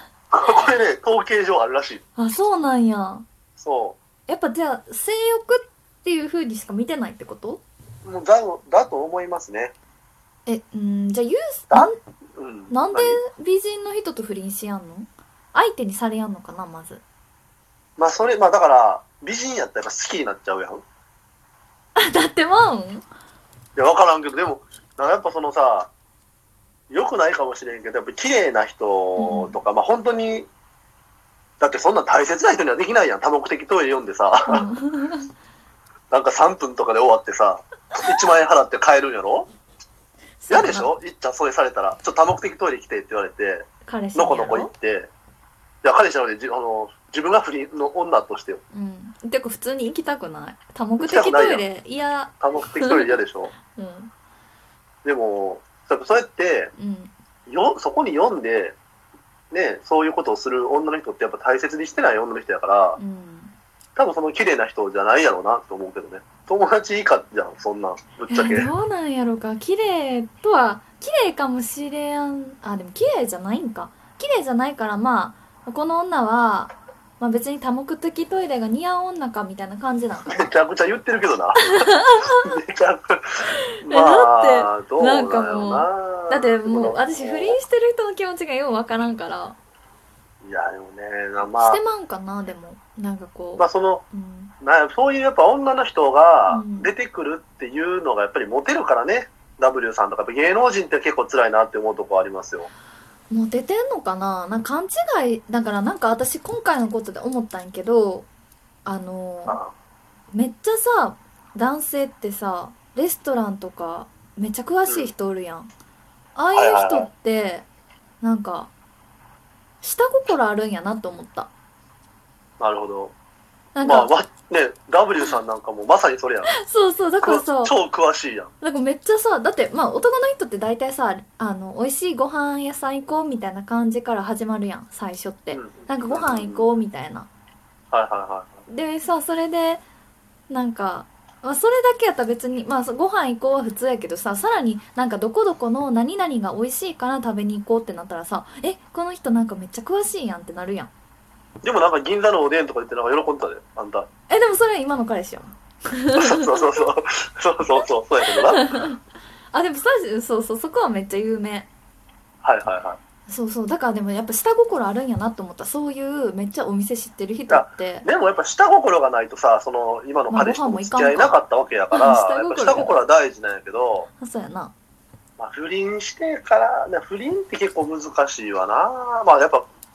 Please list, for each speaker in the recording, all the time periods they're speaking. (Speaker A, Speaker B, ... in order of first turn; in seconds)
Speaker A: 0.3-2.0, 3.6-4.0, 8.1-9.7, 11.7-13.2, 18.0-20.8, 23.8-25.9, 26.9-30.5, 31.6-34.7, 36.1-39.5, 40.5-45.1, 45.8-48.6, 51.0-51.6, 52.4-53.5, 55.0-56.7, 57.5-58.8, 59.5-63.0, 64.0-68.7, 80.3-87.6, 90.4-91.8, 93.6-94.0, 94.6-102.7, 114.9-115.1, 116.5-117.1, 122.6-123.1, 123.8-126.5, 127.2-128.5, 135.5-136.7, 137.9-138.6, 151.6-154.1, 156.2-158.8, 162.4-163.0, 167.5-174.1, 175.4-179.7
Speaker B: 2.2-3.2, 4.3-7.6, 10.5-12.0, 12.7-17.0, 22.0-23.0, 29.2-29.6, 34.5-35.3, 40.4-40.9, 43.9-44.7, 48.7-53.1, 53.7-54.1, 56.8-57.1, 63.0-63.5, 68.3-80.5, 81.7-82.4, 83.9-89.6, 91.4-94.5, 96.5-96.9, 103.3-108.3, 108.8-109.6, 110.3-115.7, 116.4-117.7, 118.2-118.7, 119.8-121.5, 123.8-124.1, 126.5-127.8, 128.6-137.3, 138.7-139.8, 140.5-150.9, 154.3-156.7, 157.8-159.0, 159.5-161.7, 163.3-168.1, 170.3-171.4, 171.9-173.0, 174.2-174.7